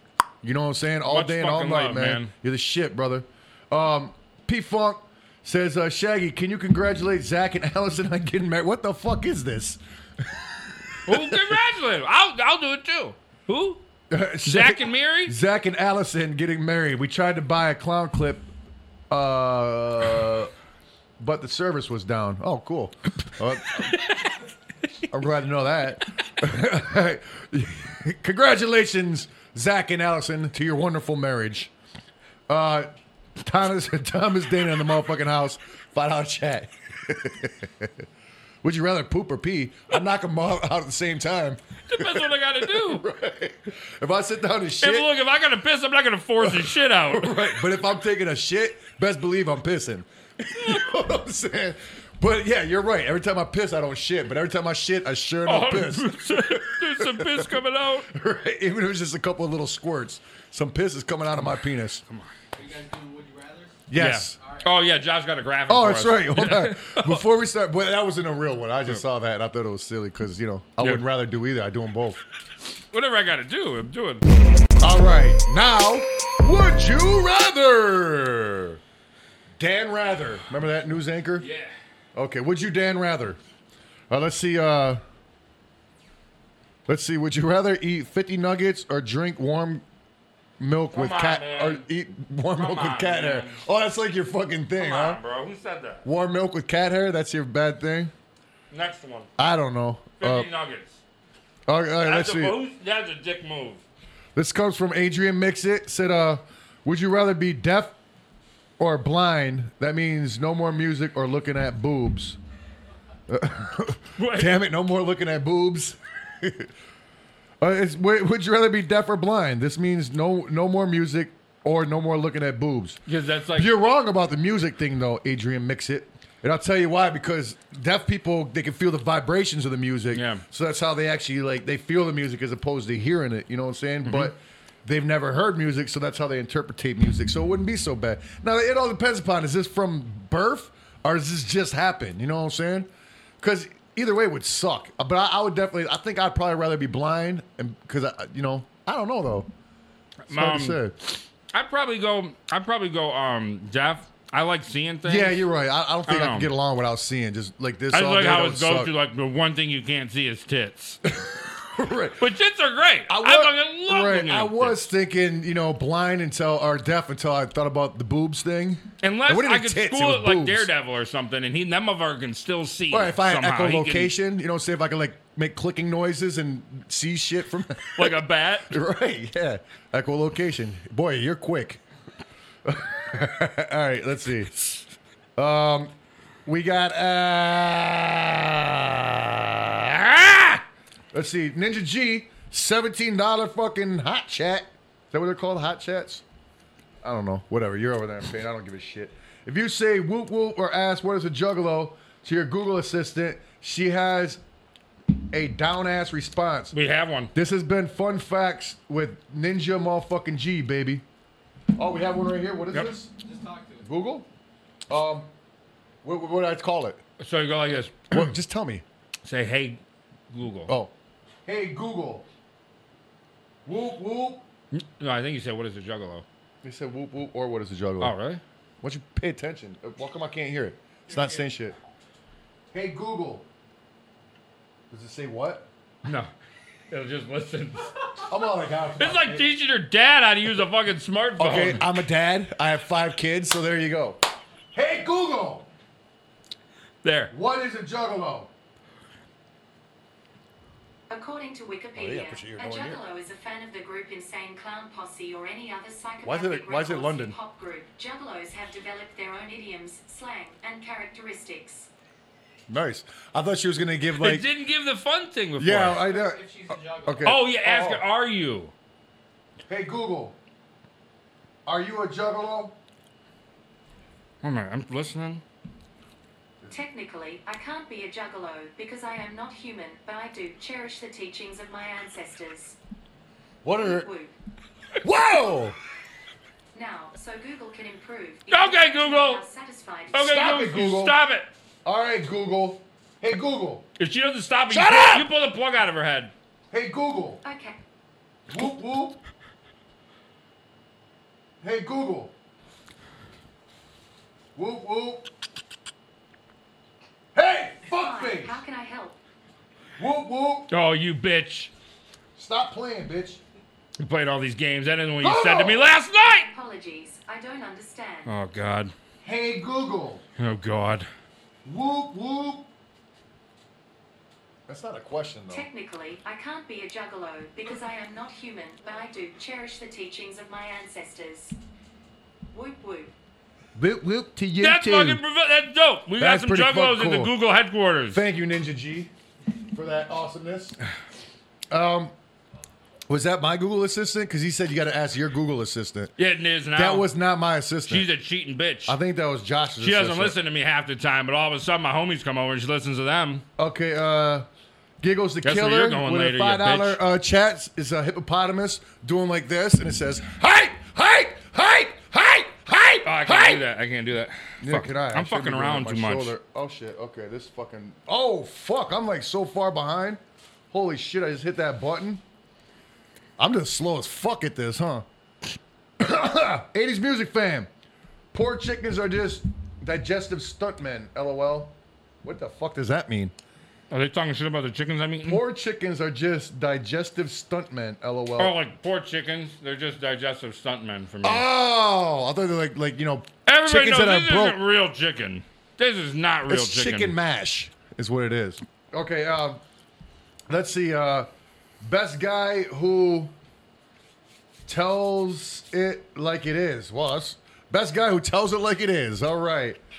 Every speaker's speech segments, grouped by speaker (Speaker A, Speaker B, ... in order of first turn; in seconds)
Speaker A: 0.4-11.6, 14.1-18.5, 19.1-20.5, 21.2-24.0, 25.1-31.7, 32.5-38.0, 38.6-45.1, 46.4-57.5, 58.1-62.0, 63.9-64.4, 65.7-72.2, 74.8-78.8, 79.6-81.5, 82.2-83.4, 84.1-85.0, 86.9-89.8, 90.6-95.2, 96.0-98.1, 99.4-100.5, 101.7-102.6, 104.3-108.0, 108.8-112.4, 113.3-116.7, 117.6-123.0, 123.5-142.9, 143.4-149.5, 150.3-151.0, 155.1-158.9, 161.1-162.3, 163.1-170.7, 172.9-181.8, 182.7-184.8, 185.4-185.9, 186.4-196.2, 197.0-204.4, 205.3-206.7, 207.3-211.0, 211.8-213.1, 213.8-214.3, 214.9-215.3, 216.0-217.0, 218.1-218.8, 221.5-222.3, 223.7-224.4, 226.6-228.2, 228.8-231.8, 232.7-233.5, 234.9-235.7, 238.3-239.5, 241.4-244.2, 244.7-245.7, 247.3-248.5, 252.0-253.0, 256.2-257.4, 262.7-264.5, 265.6-266.4, 267.0-268.0, 269.7-270.4, 271.7-272.8, 283.6-284.1, 285.0-285.8, 290.1-291.2, 291.9-293.9, 294.7-295.3, 296.7-297.4, 298.5-299.2, 301.6-302.3, 304.6-305.3, 307.4-308.6, 310.0-310.7, 312.4-313.4, 315.2-315.9, 319.2-320.2, 321.6-322.7, 324.7-325.7, 333.8-335.2, 336.2-337.3, 338.1-339.1, 339.7-340.8, 341.7-342.1, 343.1-346.1, 346.8-348.1, 348.9-350.4, 353.6-354.5, 355.0-363.6, 364.6-372.2, 373.4-375.1, 376.0-377.7, 378.3-383.3, 385.2-388.6, 391.2-394.6, 396.5-399.6, 400.5-401.3, 401.8-403.3, 404.7-409.8
Speaker B: 1.1-2.3, 11.1-13.8, 14.4-15.3, 23.8-24.4, 41.9-43.1, 44.8-47.5, 55.5-58.1, 64.0-67.2, 72.9-74.3, 81.4-81.7, 90.9-91.8, 92.5-93.6, 94.8-96.0, 98.7-99.3, 100.2-101.0, 102.0-103.8, 114.2-114.6, 123.1-123.7, 130.1-130.4, 134.1-134.3, 150.3-150.8, 151.5-155.4, 156.1-156.5, 157.9-161.0, 162.2-164.9, 169.0-174.1, 178.0-178.8, 206.7-207.3, 217.2-218.3, 219.2-220.7, 224.7-226.2, 228.0-228.4, 236.1-236.3, 236.9-237.9, 239.0-241.9, 247.0-247.3, 264.2-266.1, 267.2-268.7, 274.4-275.4, 288.5-289.4, 290.1-291.5, 294.0-296.3, 310.7-311.7, 314.0-316.5, 318.3-318.9, 320.4-321.1, 334.6-338.2, 346.2-347.1, 347.9-349.0, 349.8-353.4, 355.4-357.0, 363.0-366.3, 383.9-385.4, 388.4-391.4, 393.5-397.1
Speaker C: 62.5-63.9, 64.4-64.7, 213.2-213.9, 265.9-267.4
Speaker D: 251.1-261.9, 276.7-282.8, 283.7-284.3, 286.7-290.3, 297.4-297.8, 307.9-309.2, 316.2-318.3, 325.5-331.6, 332.5-333.1